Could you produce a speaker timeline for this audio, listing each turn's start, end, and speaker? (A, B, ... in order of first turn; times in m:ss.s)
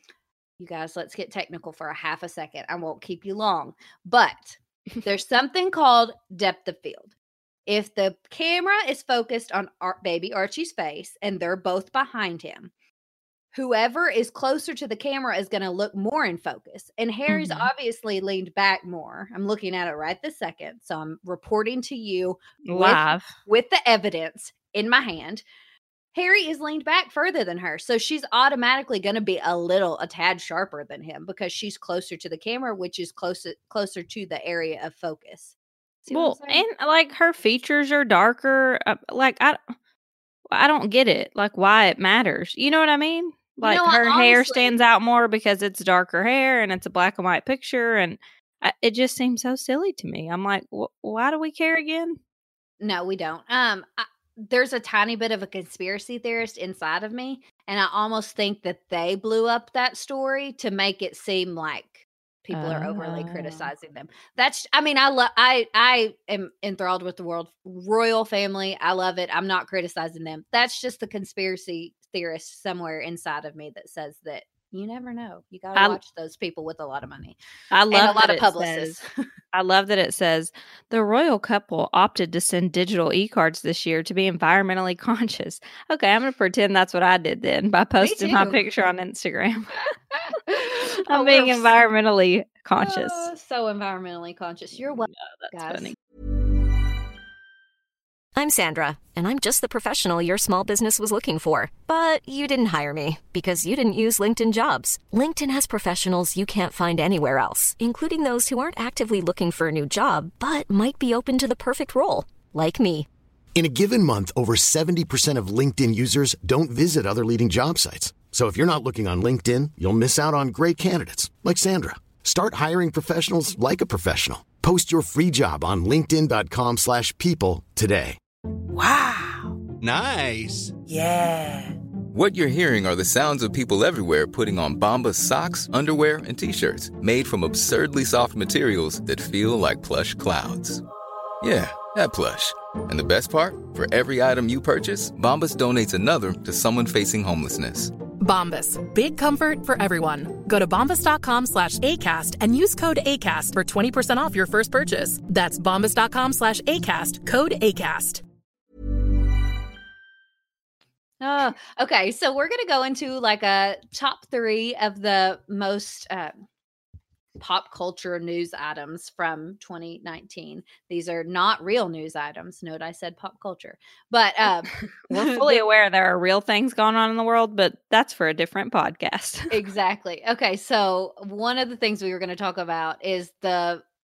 0:00.6-0:07.1 A
0:07.7-0:12.7 A
0:13.5-0:25.4 A
0:17.3-0:17.7 B
0:22.7-0:23.3 B
0:26.1-0:36.6 A
0:36.1-0:39.6 B
0:40.5-0:52.2 B
0:43.6-0:44.8 A
0:52.8-1:17.4 A
1:02.5-1:03.7 B
1:17.7-1:19.0 B
1:17.9-1:19.0 A
1:19.5-1:29.8 B
1:28.0-1:28.6 A
1:30.2-1:31.7 A
1:31.1-1:33.3 B
1:32.8-1:35.9 A
1:35.0-1:36.0 B
1:38.4-1:53.1 C
1:53.6-2:08.2 D
2:09.8-2:10.8 E
2:12.1-2:20.8 E
2:21.4-2:27.9 E
2:28.2-2:38.2 F
2:41.2-2:46.4 A
2:47.4-2:55.6 A
2:55.1-2:59.5 B
2:59.5-3:03.8 A